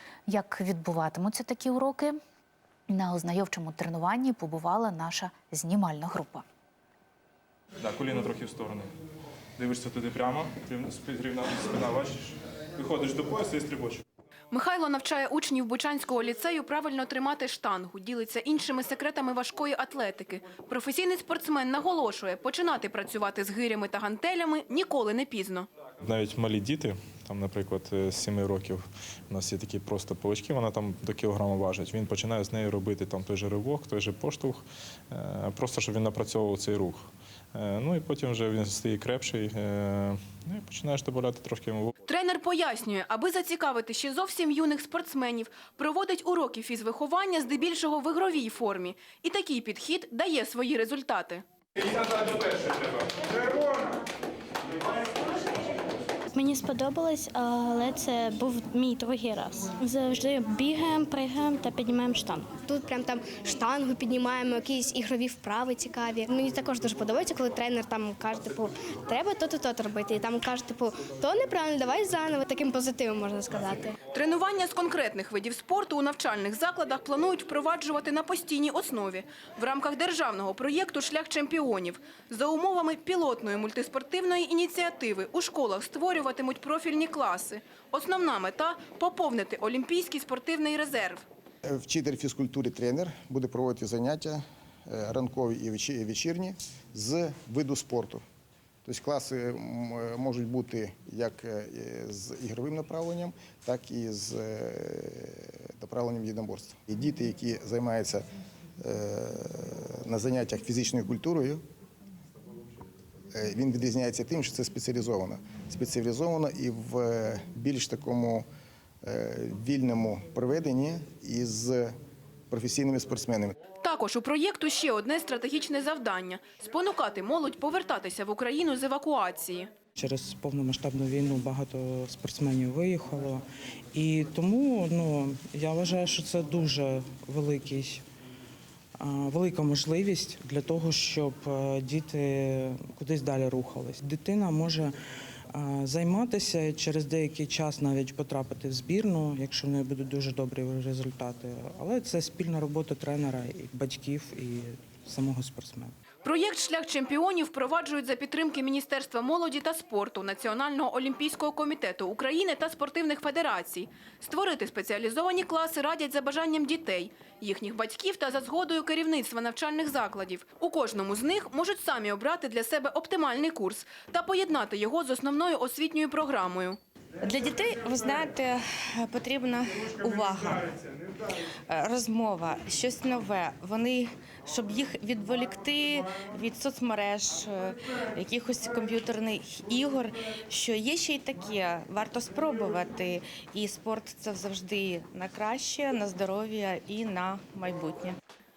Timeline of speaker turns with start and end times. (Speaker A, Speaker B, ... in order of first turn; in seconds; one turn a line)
Speaker A: 0.3-2.2
Speaker A: 2.9-6.4
Speaker B: 7.8-8.9
Speaker B: 9.6-14.0
Speaker C: 14.5-25.7
Speaker B: 26.0-41.9
Speaker C: 42.1-51.4
Speaker B: 51.8-53.0
Speaker D: 56.3-62.6
Speaker E: 62.6-73.9
Speaker C: 74.1-91.2
Speaker F: 91.7-98.2
Speaker F: 98.8-108.2
Speaker F: 108.8-111.6
Speaker F: 113.3-118.5
Speaker F: 119.0-121.9
Speaker F: 122.5-123.5
Speaker C: 123.8-129.7
Speaker G: 129.9-138.0
Speaker G: 139.0-144.9
Speaker G: 145.5-155.9
Speaker C: 156.2-176.8
Speaker H: 177.2-180.8
Speaker H: 181.7-198.2